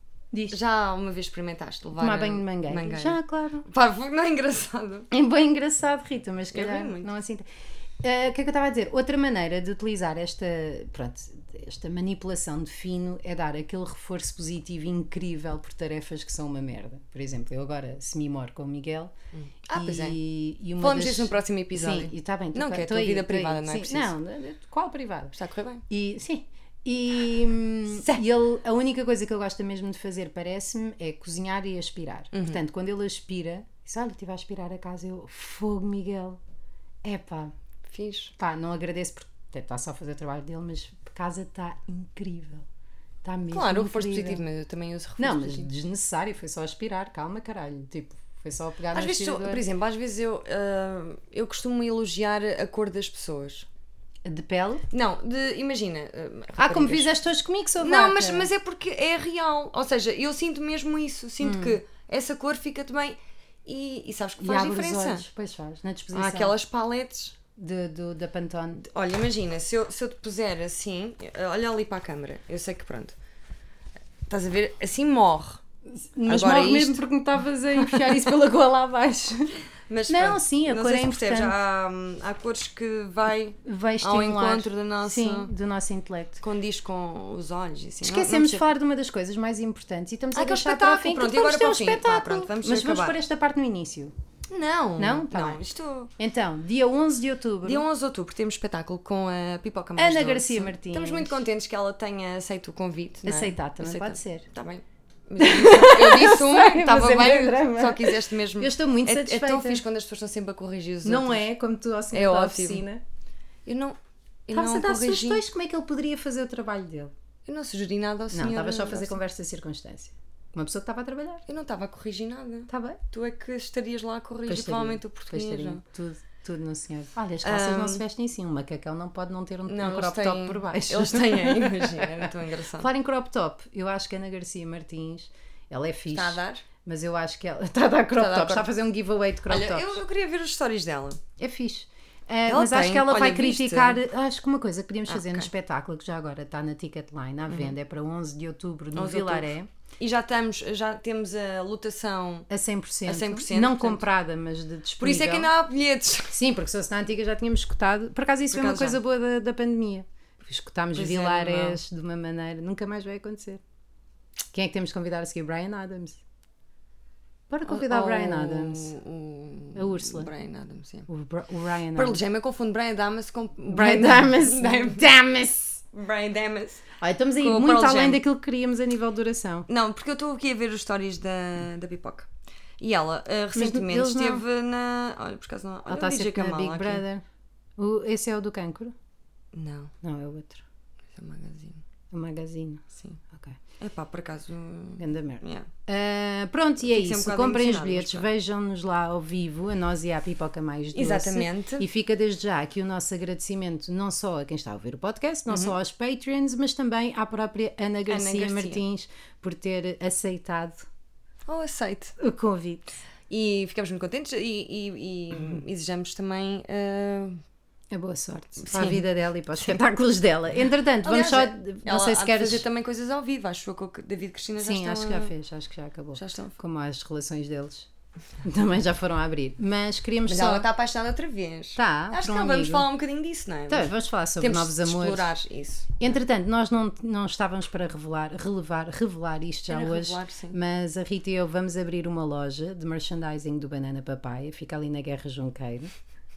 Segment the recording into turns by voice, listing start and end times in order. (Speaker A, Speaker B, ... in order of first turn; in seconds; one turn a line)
Speaker A: 0.5-5.1
Speaker B: 2.0-3.7
Speaker B: 5.1-7.4
Speaker A: 6.5-7.1
Speaker B: 8.0-19.1
Speaker A: 19.3-20.2
Speaker B: 19.7-25.3
Speaker A: 20.8-24.1
Speaker A: 25.3-25.8
Speaker B: 25.9-36.4
Speaker A: 27.9-28.2
Speaker A: 32.3-32.6
Speaker B: 37.0-37.5
Speaker A: 37.9-38.3
Speaker B: 38.4-42.6
Speaker B: 43.2-44.4
Speaker A: 43.5-45.7
Speaker B: 45.2-49.6
Speaker A: 48.9-53.7
Speaker B: 54.2-54.8
Speaker A: 54.9-57.1
Speaker B: 56.6-58.5
Speaker A: 57.8-65.2
Speaker B: 61.4-61.8
Speaker B: 64.4-66.5
Speaker A: 66.1-67.3
Speaker B: 67.5-68.8
Speaker A: 68.8-73.2
Speaker A: 74.3-75.6
Speaker B: 76.0-81.5
Speaker A: 76.3-77.0
Speaker A: 77.8-78.2
Speaker A: 79.9-85.5
Speaker B: 83.6-86.4
Speaker A: 86.4-88.7
Speaker B: 88.0-94.1
Speaker A: 90.3-93.2
Speaker A: 94.5-96.1
Speaker B: 95.0-95.6
Speaker B: 96.2-97.8
Speaker A: 97.6-111.5
Speaker B: 100.0-101.4
Speaker B: 103.2-104.5
Speaker B: 105.4-109.8
Speaker B: 111.0-113.0
Speaker A: 112.1-112.8
Speaker A: 113.7-115.4
Speaker B: 114.5-117.1
Speaker A: 117.5-119.2
Speaker B: 118.3-121.4
Speaker A: 121.5-125.8
Speaker B: 122.7-123.0
Speaker B: 124.5-140.0
Speaker A: 127.4-128.0
Speaker A: 129.7-132.9
Speaker A: 136.1-136.6
Speaker A: 138.1-138.7
Speaker A: 139.5-141.2
Speaker B: 141.4-149.7
Speaker A: 142.5-144.0
Speaker A: 145.1-145.5
Speaker A: 147.5-147.7
Speaker A: 148.9-152.5
Speaker B: 152.5-155.5
Speaker A: 153.1-154.1
Speaker A: 155.0-156.4
Speaker B: 156.3-163.6
Speaker A: 158.5-159.0
Speaker A: 160.9-161.8
Speaker B: 164.5-166.2
Speaker B: 167.5-168.9
Speaker A: 167.7-171.1
Speaker B: 169.7-170.3
Speaker B: 171.1-172.2
Speaker A: 171.9-175.1
Speaker B: 173.7-175.8
Speaker A: 175.9-176.8
Speaker B: 177.0-179.7
Speaker A: 177.4-178.2
Speaker A: 179.7-187.0
Speaker B: 183.5-184.4
Speaker B: 185.9-187.2
Speaker B: 187.8-188.9
Speaker A: 189.5-189.9
Speaker B: 190.0-190.6
Speaker A: 191.1-191.8
Speaker B: 192.1-193.6
Speaker A: 192.9-193.2
Speaker A: 193.8-195.7
Speaker B: 195.0-210.8
Speaker A: 196.8-198.3
Speaker A: 200.9-201.8
Speaker A: 205.5-205.7
Speaker A: 208.1-208.8
Speaker A: 211.4-212.1
Speaker B: 212.2-212.9
Speaker A: 213.3-217.4
Speaker B: 217.9-222.7
Speaker A: 218.6-219.0
Speaker A: 221.0-225.3
Speaker B: 224.6-227.9
Speaker A: 226.1-226.6
Speaker B: 228.4-230.7
Speaker A: 230.3-236.2
Speaker B: 231.8-232.9
Speaker B: 233.7-235.3
Speaker B: 236.0-245.9
Speaker A: 239.7-240.6